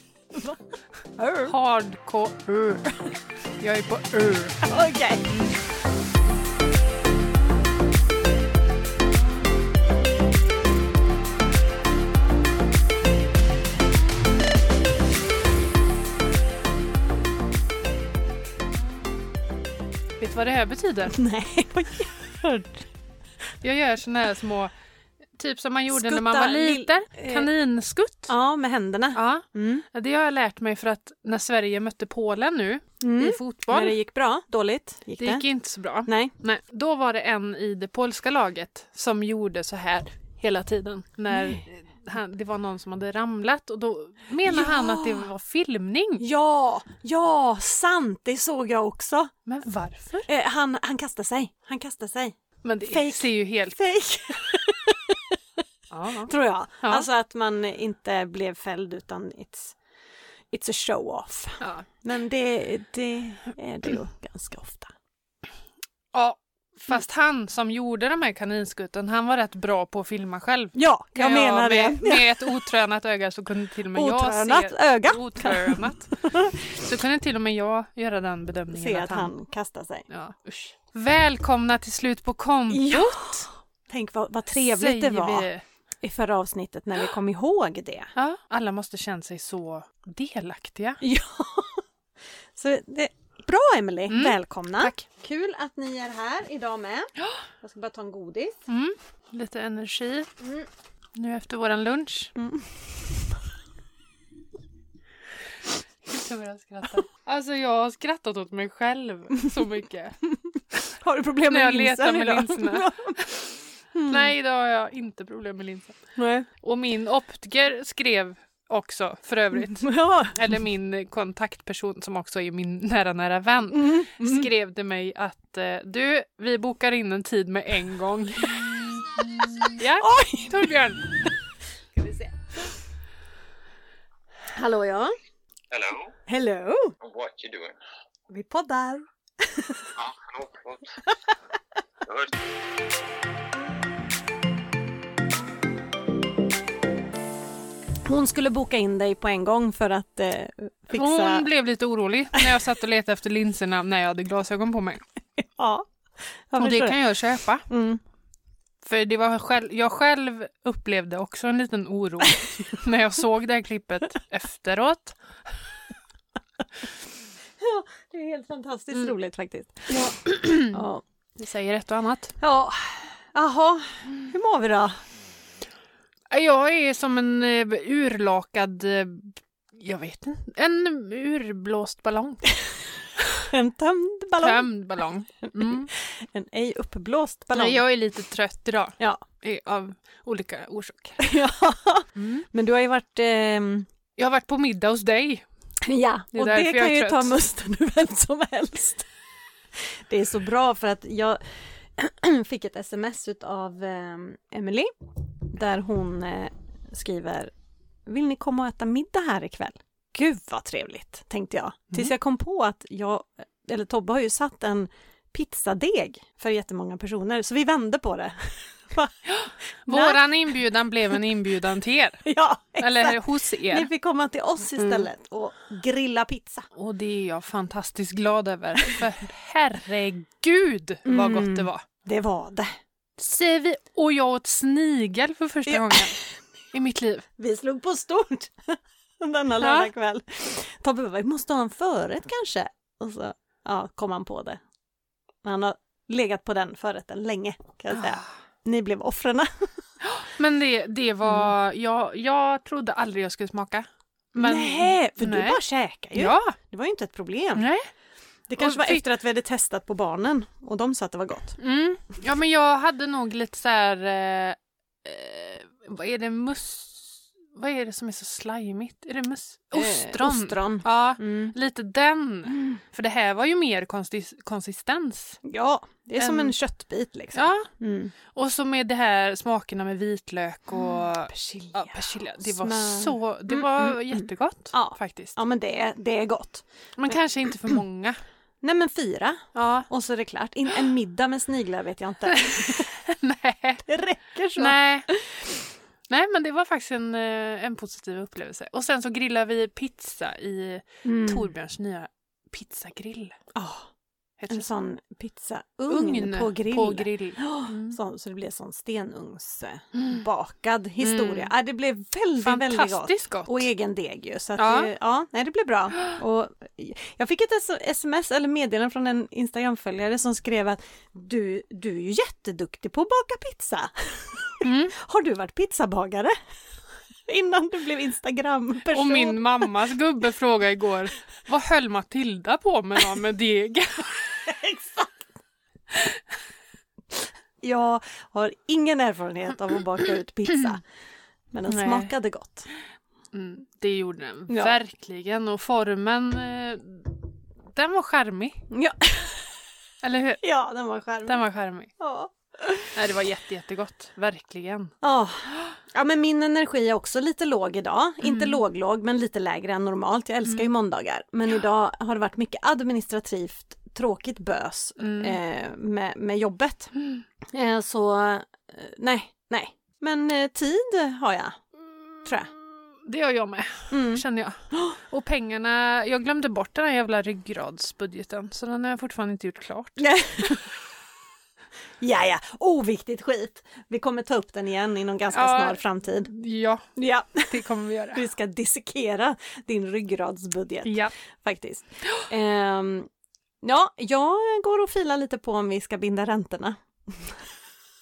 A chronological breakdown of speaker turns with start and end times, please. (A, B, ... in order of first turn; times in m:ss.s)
0:01.2-0:01.5 A
0:01.4-0:03.1 B
0:03.6-0:04.6 B
0:04.6-0:05.2 A
0:20.2-0:21.2 B
0:21.1-0:22.8 A
0:23.6-0:24.7 B
0:25.3-0:28.3 B
0:25.9-0:27.5 A
0:28.3-0:29.8 A
0:29.1-0:34.0 B
0:33.0-0:35.4 A
0:35.2-0:46.2 B
0:36.0-0:36.3 A
0:44.4-0:45.3 A
0:46.2-0:49.3 A
0:49.4-0:50.3 B
0:50.2-0:55.4 A
0:52.6-0:53.8 B
0:55.9-0:56.3 B
0:56.2-0:59.8 A
0:56.8-0:57.1 B
1:00.5-1:04.9 A
1:06.1-1:16.2 B
1:10.7-1:12.7 A
1:13.9-1:16.8 A
1:16.7-1:19.3 B
1:18.7-1:20.1 A
1:20.1-1:23.4 B
1:22.7-1:25.5 A
1:24.5-1:25.6 B
1:26.0-1:28.1 A
1:28.2-1:31.0 B
1:31.0-1:31.8 A
1:32.5-1:37.1 A
1:34.1-1:35.0 B
1:37.6-1:38.6 A
1:38.7-1:40.4 B
1:41.1-1:42.3 B
1:42.4-1:42.8 A
1:46.0-1:50.2 B
1:50.9-1:53.2 A
1:51.5-1:53.4 B
1:53.9-1:54.3 A
1:54.1-1:56.0 B
1:56.2-1:56.5 A
1:56.6-2:08.6 B
1:59.6-2:00.4 A
2:03.7-2:04.5 A
2:09.7-2:11.0 B
2:10.0-2:10.7 A
2:12.0-2:12.4 A
2:14.5-2:15.1 A
2:15.7-2:16.2 C
2:16.3-2:16.9 A
2:17.0-2:17.8 C
2:18.3-2:19.9 A
2:20.0-2:21.0 C
2:22.0-2:22.3 C
2:28.0-2:31.5 A
2:30.9-2:35.0 B
2:35.4-2:35.9 A
2:36.5-2:37.0 A
2:36.6-2:37.7 B
2:37.7-2:38.0 A
2:38.8-2:45.2 B
2:47.6-2:50.1 A
2:49.9-2:50.8 B
2:50.7-2:51.0 A
2:51.4-2:52.3 B
2:52.4-2:55.0 A
2:56.3-3:02.5 B
3:03.4-3:04.7 A
3:04.4-3:05.9 B
3:05.4-3:07.8 A
3:07.5-3:11.2 B
3:09.0-3:09.2 A
3:11.2-3:13.9 A
3:12.2-3:12.4 B
3:14.2-3:15.4 B
3:15.8-3:19.1 A
3:16.3-3:17.3 B
3:20.1-3:27.5 A
3:28.0-3:40.4 A
3:39.3-3:42.2 B
3:42.2-3:46.7 A
3:42.8-3:43.9 B
3:44.8-3:45.1 B
3:46.7-3:51.8 B
3:51.0-3:52.8 A
3:53.2-3:56.2 B
3:55.7-3:56.3 A
3:56.7-3:57.2 B
3:57.4-4:04.6 A
3:59.6-3:59.9 B
4:05.4-4:09.7 A
4:07.9-4:08.2 B
4:10.0-4:15.6 B
4:14.4-4:17.7 A
4:16.1-4:16.5 B
4:17.5-4:17.9 B
4:18.5-4:21.6 A
4:18.6-4:19.0 B
4:21.6-4:35.4 B
4:29.7-4:31.5 A
4:35.4-4:38.1 A
4:36.2-4:36.5 B
4:37.3-4:37.7 B
4:38.3-4:45.4 B
4:40.7-4:47.2 A
4:47.0-4:48.2 B
4:48.6-4:52.9 A
4:49.5-4:49.9 B
4:52.3-4:53.8 B
4:53.8-4:55.5 A
4:54.6-4:55.1 B
4:56.1-5:03.4 B
5:01.0-5:01.5 A
5:03.5-5:03.9 A
5:04.4-5:04.6 B
5:04.5-5:26.3 A
5:05.9-5:08.0 B
5:11.0-5:11.5 B
5:12.4-5:13.7 B
5:14.6-5:14.9 B
5:24.6-5:24.9 B
5:27.3-5:29.7 A
5:28.9-5:34.2 B
5:34.4-5:35.2 A
5:35.9-5:36.2 B
5:37.6-5:40.8 A
5:41.5-5:42.7 A
5:41.7-5:42.1 B
5:43.3-5:47.2 B
5:44.5-5:44.8 A
5:47.7-5:48.6 B
5:48.7-5:49.5 A
5:50.0-5:50.4 B
5:50.4-5:51.4 A
5:51.2-5:51.9 B
5:52.0-5:52.9 A
5:52.9-5:54.9 B
5:55.0-6:06.9 A
5:58.2-5:58.6 B
6:00.4-6:00.7 B
6:05.0-6:05.4 B
6:07.0-6:07.2 B
6:07.5-6:11.6 A
6:12.2-6:12.5 A
6:13.0-6:20.6 B
6:13.9-6:15.0 A
6:20.0-6:20.7 A
6:22.0-6:26.3 A
6:25.3-6:26.9 B
6:27.0-6:33.1 A
6:27.5-6:28.2 B
6:30.8-6:31.1 B
6:33.6-6:37.4 A